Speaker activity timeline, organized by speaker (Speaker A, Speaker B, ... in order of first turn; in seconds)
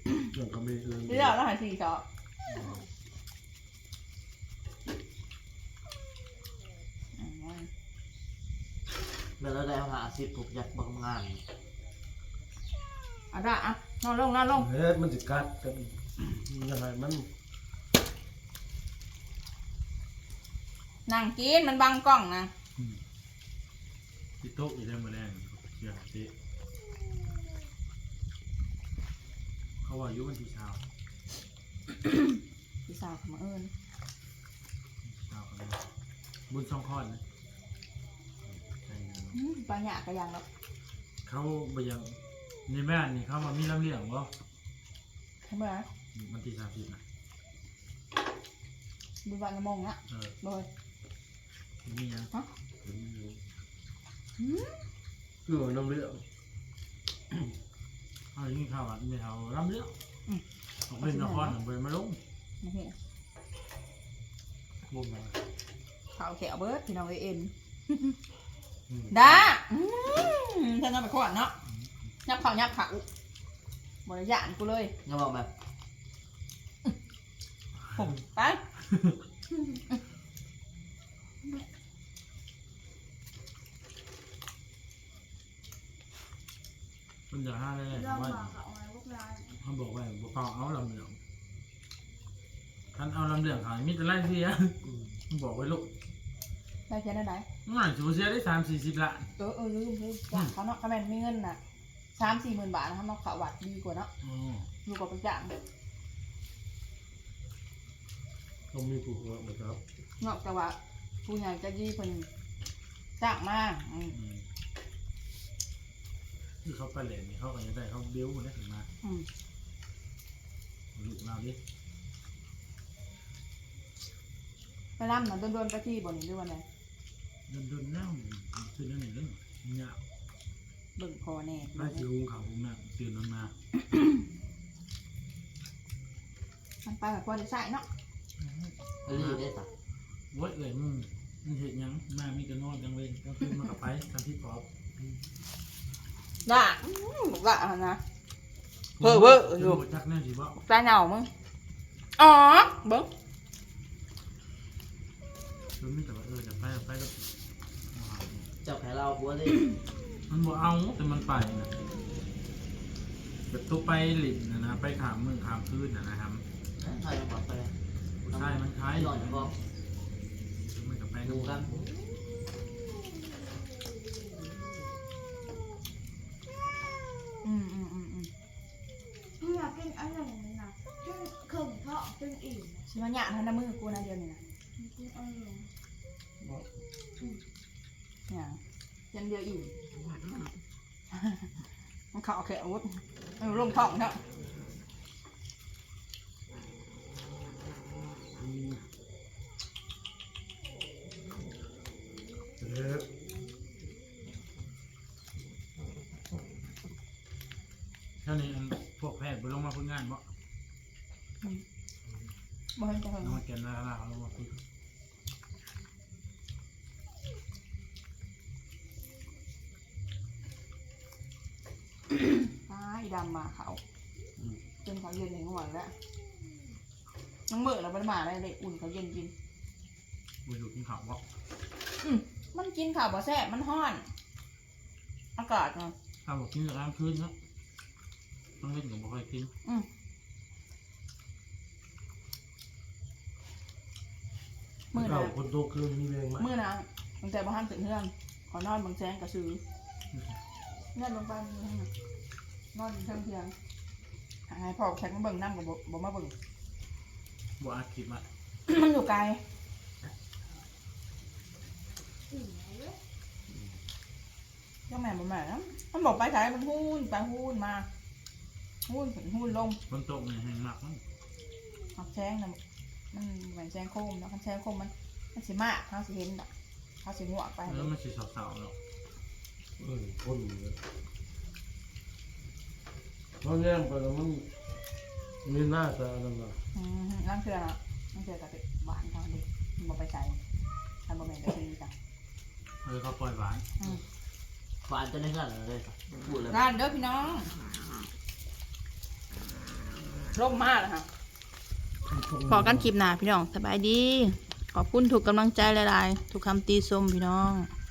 Speaker A: 0.3-1.4, 14.6-17.3, 52.8-53.4, 55.5-56.2, 94.8-95.2, 108.7-109.8, 198.4-198.8, 202.6-203.1, 244.9-246.5, 279.8-280.8, 283.4-284.5, 285.4-286.6, 302.1-302.9
Speaker B: 1.1-2.0, 7.2-7.7, 13.3-14.7, 21.1-22.5, 32.9-33.7, 39.3-40.4, 45.4-45.9, 49.2-50.7, 54.4-54.8, 61.0-61.6, 62.6-63.0, 66.2-68.2, 69.1-71.5, 72.3-73.0, 74.0-74.9, 77.9-78.6, 96.9-97.5, 99.4-101.6, 102.2-104.1, 104.8-105.5, 110.2-112.3, 113.2-114.2, 125.0-126.6, 131.0-132.1, 133.8-134.1, 136.8-137.8, 146.4-148.0, 149.0-149.8, 150.6-151.3, 152.2-153.1, 177.4-178.3, 182.9-184.4, 188.3-188.6, 189.1-189.7, 191.1-191.4, 192.1-194.2, 212.8-213.4, 222.2-223.8, 224.8-225.9, 227.5-229.3, 232.0-234.1, 235.4-235.9, 244.9-245.3, 246.4-249.6, 250.9-251.9, 252.7-253.5, 254.5-256.3, 258.7-259.4, 264.9-267.9, 268.9-269.8, 271.9-272.6, 273.1-276.5, 277.0-277.9, 286.7-290.4, 291.1-291.9, 296.5-297.5, 300.3-301.1, 302.5-307.7
Speaker C: 2.5-2.8, 24.4-26.3, 29.8-30.8, 35.0-35.8, 36.5-37.2, 38.5-39.4, 41.2-44.3, 46.1-47.0, 50.1-50.4, 51.9-52.3, 58.3-59.9, 60.9-62.2, 69.0-69.4, 87.3-88.6, 89.6-91.2, 92.9-94.8, 95.3-95.9, 97.7-99.3, 104.2-104.7, 114.1-114.5, 116.6-118.9, 121.0-121.6, 127.5-130.0, 131.8-133.5, 138.4-139.4, 140.3-144.7, 149.0-150.6, 155.8-157.2, 157.9-158.5, 160.3-161.7, 163.5-166.4, 168.2-169.5, 170.7-171.8, 208.2-210.2, 213.2-214.6, 230.4-231.2, 236.2-237.3, 238.6-239.5, 257.6-258.2, 269.9-271.0, 277.7-278.8, 292.8-293.9
Speaker D: 9.4-11.4, 64.9-65.3, 75.0-75.5, 139.1-139.7, 158.6-159.7, 166.8-167.8, 168.3-169.5, 171.2-171.8, 294.9-296.6
Speaker E: 87.9-89.5, 179.4-182.9, 184.8-185.7, 262.3-263.0